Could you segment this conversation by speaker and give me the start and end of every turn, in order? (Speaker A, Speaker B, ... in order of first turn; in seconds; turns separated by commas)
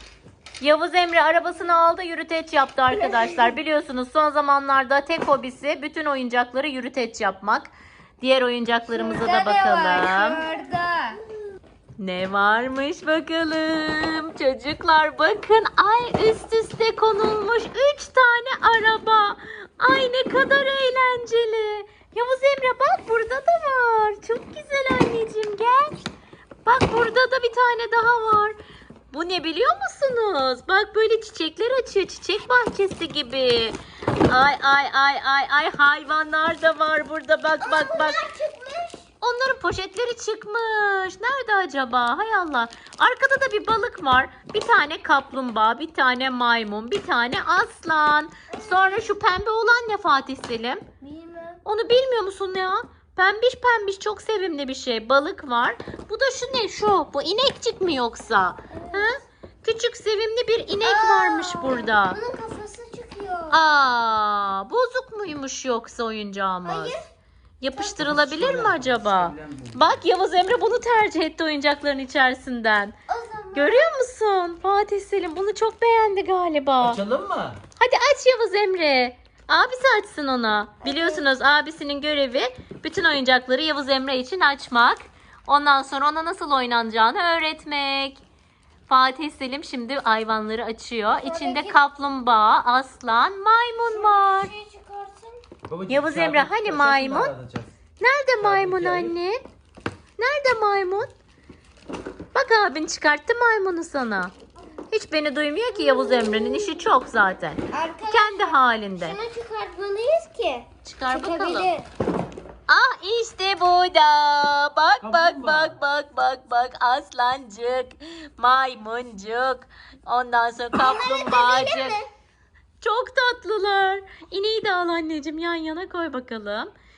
Speaker A: 0.6-10.4, Speaker B: 3.0-3.4, Speaker B: 8.9-11.2, Speaker A: 12.0-26.0, Speaker A: 26.6-28.6, Speaker A: 29.1-38.2, Speaker B: 37.6-39.1, Speaker A: 39.2-50.8, Speaker B: 48.5-49.1, Speaker B: 51.0-51.6, Speaker A: 51.6-62.2, Speaker B: 58.7-59.1, Speaker B: 60.8-63.6, Speaker A: 63.5-66.9, Speaker B: 66.6-67.1, Speaker A: 67.6-72.9, Speaker C: 68.0-69.9, Speaker B: 73.1-73.9, Speaker A: 73.5-77.0, Speaker C: 76.8-77.6, Speaker A: 77.8-88.2, Speaker B: 80.8-81.2, Speaker A: 88.9-94.5, Speaker B: 91.2-91.8, Speaker B: 93.8-95.4, Speaker C: 95.7-97.7, Speaker A: 95.9-97.3, Speaker A: 98.0-99.4, Speaker C: 98.4-99.1, Speaker A: 100.2-101.1, Speaker A: 102.3-104.3, Speaker A: 104.9-109.2, Speaker B: 105.7-106.8, Speaker B: 107.7-111.9, Speaker A: 110.8-111.7, Speaker A: 112.7-122.0, Speaker C: 115.0-115.8, Speaker B: 120.7-122.0, Speaker A: 122.8-126.7